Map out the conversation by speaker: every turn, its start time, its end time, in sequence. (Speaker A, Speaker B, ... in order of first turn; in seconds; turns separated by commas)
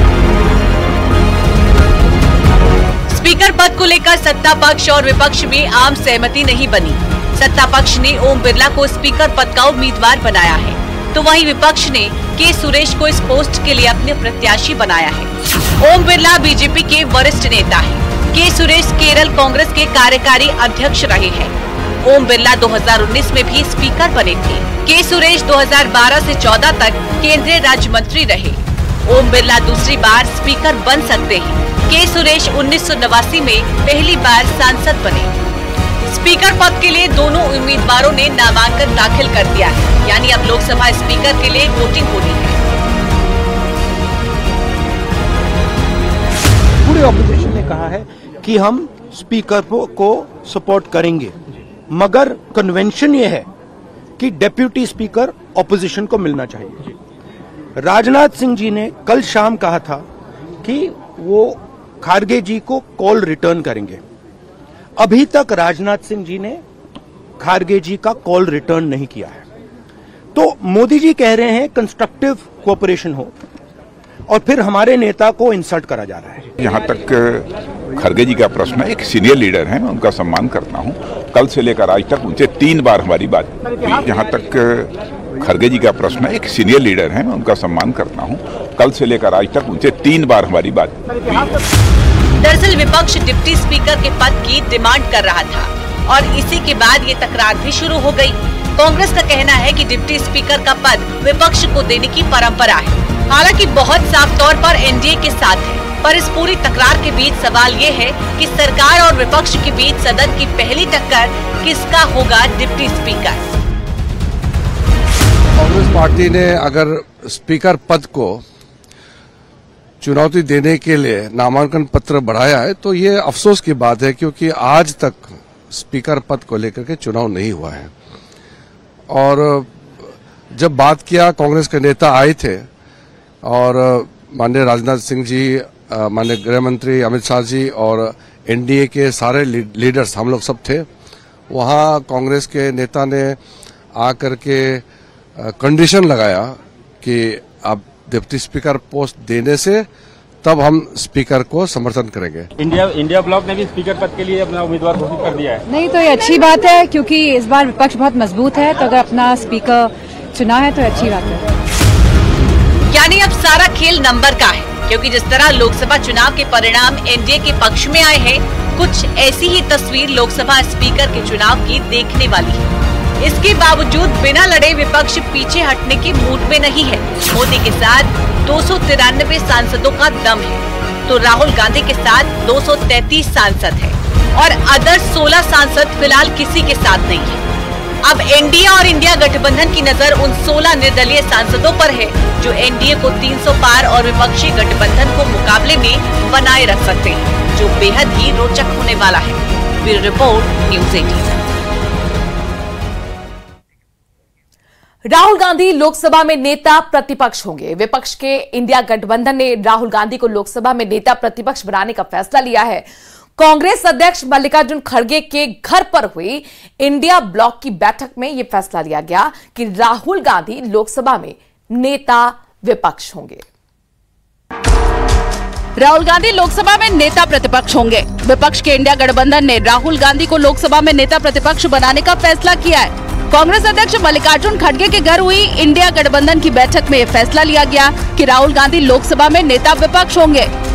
Speaker A: 3.1-35.3, Speaker A: 36.1-42.6, Speaker B: 46.8-51.4, Speaker B: 51.9-53.5, Speaker B: 54.2-56.8, Speaker B: 57.8-60.0, Speaker B: 60.6-64.0, Speaker B: 65.0-66.6, Speaker B: 67.4-69.5, Speaker B: 70.3-73.3, Speaker B: 74.3-76.5, Speaker C: 76.6-91.5, Speaker A: 92.4-113.5, Speaker D: 115.6-118.4, Speaker D: 120.0-127.9, Speaker D: 129.1-129.7, Speaker D: 130.5-132.7, Speaker D: 133.4-140.9, Speaker D: 141.5-143.4, Speaker D: 144.0-144.8, Speaker D: 145.4-149.9, Speaker D: 150.4-152.5, Speaker E: 152.7-155.6, Speaker F: 155.7-161.4, Speaker A: 162.9-172.7, Speaker A: 173.2-187.4, Speaker A: 188.1-201.4, Speaker G: 205.1-212.9, Speaker G: 213.4-223.5, Speaker H: 225.8-240.5